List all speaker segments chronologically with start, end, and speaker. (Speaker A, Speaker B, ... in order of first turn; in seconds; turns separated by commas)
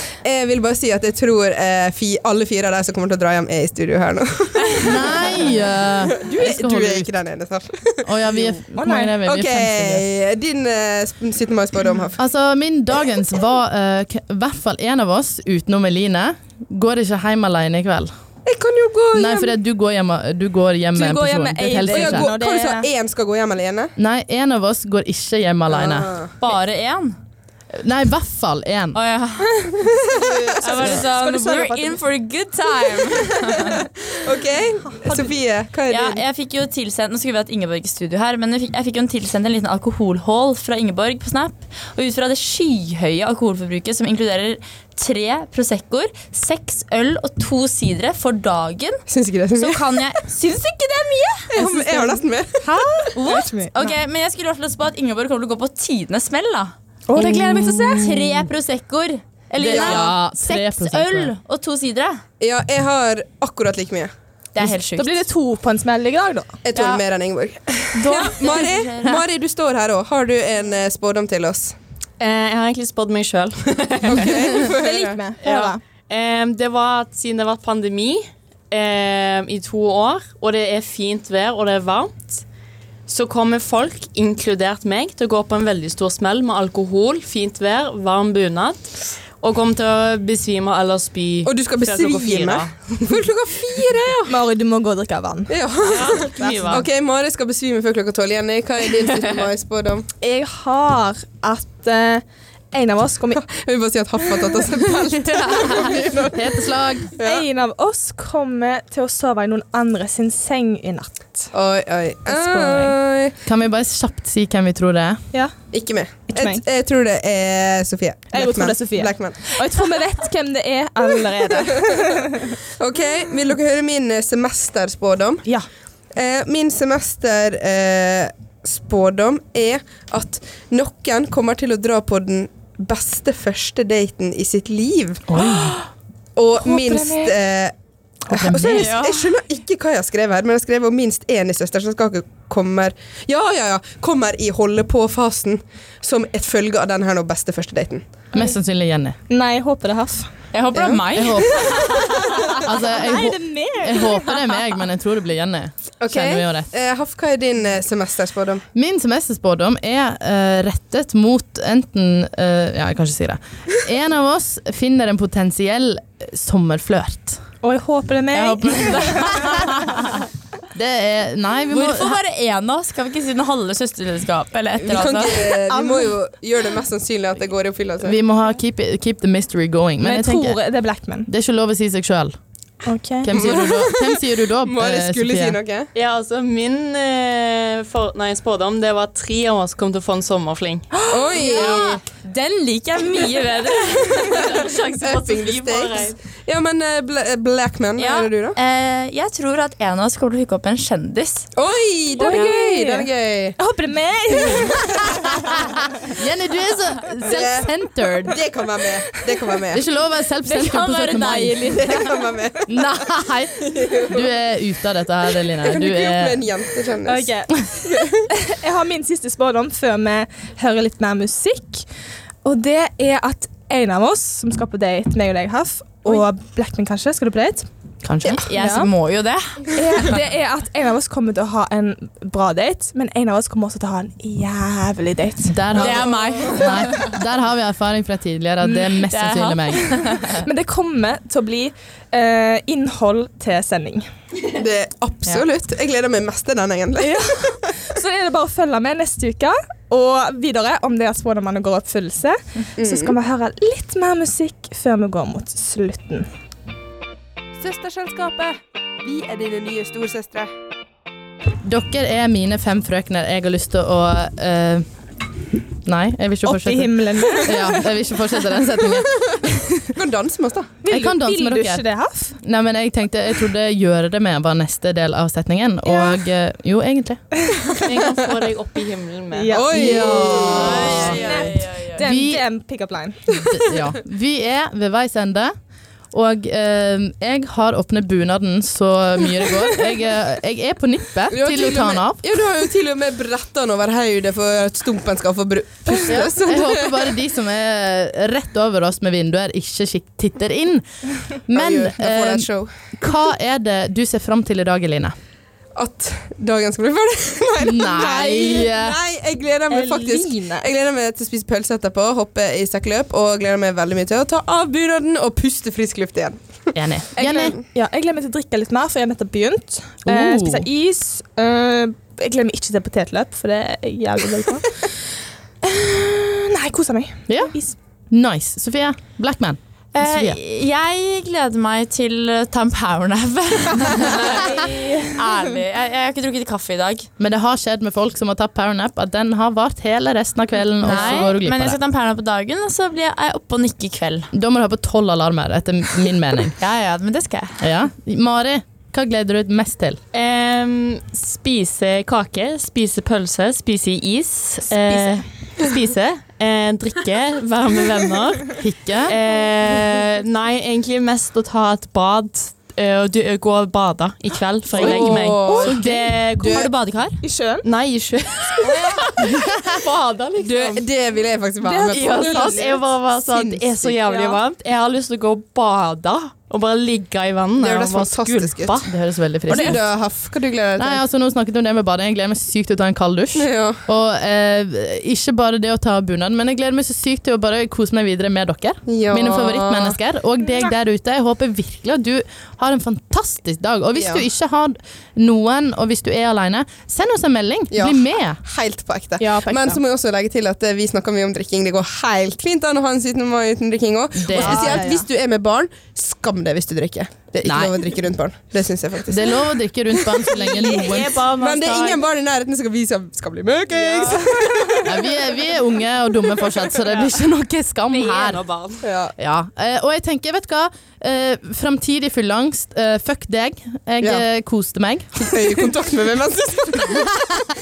Speaker A: 0.2-8.1, Speaker B: 4.8-7.1, Speaker B: 8.0-10.1, Speaker C: 8.7-9.2, Speaker A: 9.2-12.2, Speaker B: 12.2-18.1, Speaker A: 18.4-19.6, Speaker B: 19.1-22.3, Speaker C: 20.9-22.9, Speaker A: 21.9-23.9, Speaker B: 24.0-26.1, Speaker A: 25.7-26.3, Speaker D: 26.4-27.2, Speaker B: 27.7-29.0, Speaker D: 28.9-29.7, Speaker A: 29.8-31.1, Speaker D: 30.6-33.9, Speaker C: 30.7-31.9, Speaker A: 34.1-36.2, Speaker D: 35.9-49.0, Speaker A: 49.1-50.2, Speaker D: 49.5-51.5, Speaker A: 51.5-52.7, Speaker C: 51.6-53.9, Speaker D: 53.1-56.7, Speaker C: 57.1-58.1, Speaker B: 57.2-58.1, Speaker D: 57.9-62.2, Speaker A: 59.6-60.1, Speaker B: 59.6-61.3, Speaker A: 62.4-64.1, Speaker D: 64.5-65.2, Speaker C: 64.9-66.6, Speaker A: 66.7-71.8, Speaker D: 68.0-69.1, Speaker E: 72.2-74.7, Speaker A: 74.0-75.2, Speaker C: 74.6-75.8, Speaker E: 75.4-82.4, Speaker E: 83.1-88.9, Speaker E: 89.4-92.7, Speaker A: 91.5-94.4, Speaker C: 94.3-96.8, Speaker A: 95.5-100.1, Speaker E: 95.9-96.9, Speaker C: 100.2-103.5, Speaker A: 103.5-106.5, Speaker C: 104.4-104.8, Speaker B: 105.3-107.1, Speaker A: 107.2-107.5, Speaker C: 107.2-111.5, Speaker A: 111.5-113.4, Speaker C: 112.3-113.0, Speaker B: 113.5-115.2, Speaker A: 115.7-119.5, Speaker C: 116.3-116.6, Speaker C: 118.3-122.5, Speaker A: 122.8-125.5, Speaker A: 126.1-135.2, Speaker B: 135.3-135.8, Speaker C: 135.4-135.9, Speaker A: 136.4-137.7, Speaker C: 136.6-137.3, Speaker A: 138.3-148.1, Speaker B: 138.3-139.0, Speaker B: 148.3-149.2, Speaker C: 149.3-150.3, Speaker D: 150.5-152.3, Speaker A: 150.8-151.0, Speaker B: 150.9-156.7, Speaker C: 151.9-154.6, Speaker A: 156.0-158.7, Speaker B: 158.8-167.4, Speaker C: 167.6-169.5, Speaker B: 168.3-170.1, Speaker B: 170.7-172.2, Speaker D: 171.7-175.5, Speaker A: 174.8-178.2, Speaker C: 175.7-176.1, Speaker B: 178.0-180.6, Speaker C: 180.0-181.3, Speaker B: 181.3-182.4, Speaker C: 182.8-183.6, Speaker B: 183.2-185.6, Speaker A: 183.3-185.9, Speaker E: 185.9-190.9, Speaker C: 190.9-191.7, Speaker A: 191.1-192.0, Speaker D: 191.4-196.1, Speaker A: 194.2-198.6, Speaker E: 195.7-196.1, Speaker D: 198.0-201.5, Speaker A: 201.6-203.6, Speaker C: 202.2-205.7, Speaker B: 205.5-208.4, Speaker A: 207.2-207.7, Speaker A: 208.2-209.8, Speaker B: 209.7-212.1, Speaker D: 210.5-211.8, Speaker A: 211.6-213.0, Speaker B: 212.7-216.5, Speaker A: 213.7-214.2, Speaker A: 215.6-217.3, Speaker C: 217.1-221.9, Speaker A: 217.9-218.2, Speaker C: 222.4-227.7, Speaker B: 228.0-228.4, Speaker D: 228.4-230.1, Speaker C: 228.6-228.9, Speaker C: 229.7-235.6, Speaker B: 235.4-240.1, Speaker D: 235.8-236.8, Speaker E: 236.0-236.9, Speaker D: 239.1-240.3, Speaker C: 240.2-244.1, Speaker A: 244.5-247.6, Speaker C: 247.0-256.3, Speaker A: 252.8-253.2, Speaker A: 257.6-260.5, Speaker B: 261.6-264.9, Speaker B: 265.9-269.7, Speaker C: 266.4-267.9, Speaker A: 269.9-270.8, Speaker C: 270.8-272.4, Speaker B: 270.9-271.8, Speaker B: 272.4-277.4, Speaker E: 277.7-281.9, Speaker C: 279.3-283.4, Speaker A: 279.5-281.1, Speaker B: 279.8-281.2, Speaker D: 280.6-282.0, Speaker B: 282.0-282.5, Speaker B: 283.4-285.5, Speaker B: 286.1-292.4, Speaker A: 291.3-297.0, Speaker B: 296.0-300.9, Speaker B: 301.5-305.1, Speaker A: 301.5-302.7, Speaker A: 305.8-316.4, Speaker B: 307.6-309.0, Speaker C: 309.7-310.7, Speaker B: 316.8-317.6, Speaker C: 317.2-324.8, Speaker B: 320.1-320.7, Speaker C: 325.6-327.8, Speaker B: 327.3-327.5, Speaker B: 328.1-330.4, Speaker D: 329.9-337.1, Speaker B: 337.2-341.8, Speaker D: 340.8-344.3, Speaker E: 340.9-341.3, Speaker B: 344.3-346.6, Speaker D: 346.6-347.6, Speaker B: 347.6-350.0, Speaker E: 350.1-366.6, Speaker B: 358.6-359.2, Speaker A: 364.8-365.8, Speaker B: 364.8-365.3, Speaker D: 365.7-367.2, Speaker A: 366.4-366.7, Speaker C: 367.2-367.6, Speaker E: 367.6-370.8, Speaker A: 370.4-374.0, Speaker C: 371.6-372.8, Speaker E: 371.9-378.9, Speaker C: 374.1-374.4, Speaker A: 377.6-378.9, Speaker B: 378.9-379.9, Speaker E: 379.5-379.8, Speaker A: 379.5-381.0, Speaker B: 380.8-398.4, Speaker A: 383.4-383.8, Speaker A: 388.9-389.9, Speaker A: 393.9-394.2, Speaker A: 397.7-409.5, Speaker C: 399.2-399.8, Speaker B: 404.2-405.0, Speaker B: 407.4-407.8, Speaker B: 409.1-411.3, Speaker E: 410.3-412.0, Speaker A: 411.3-414.9, Speaker C: 413.8-414.9, Speaker B: 414.9-418.4, Speaker E: 417.9-418.8, Speaker A: 418.8-419.1, Speaker B: 419.2-425.7, Speaker A: 425.2-427.2, Speaker B: 426.8-427.5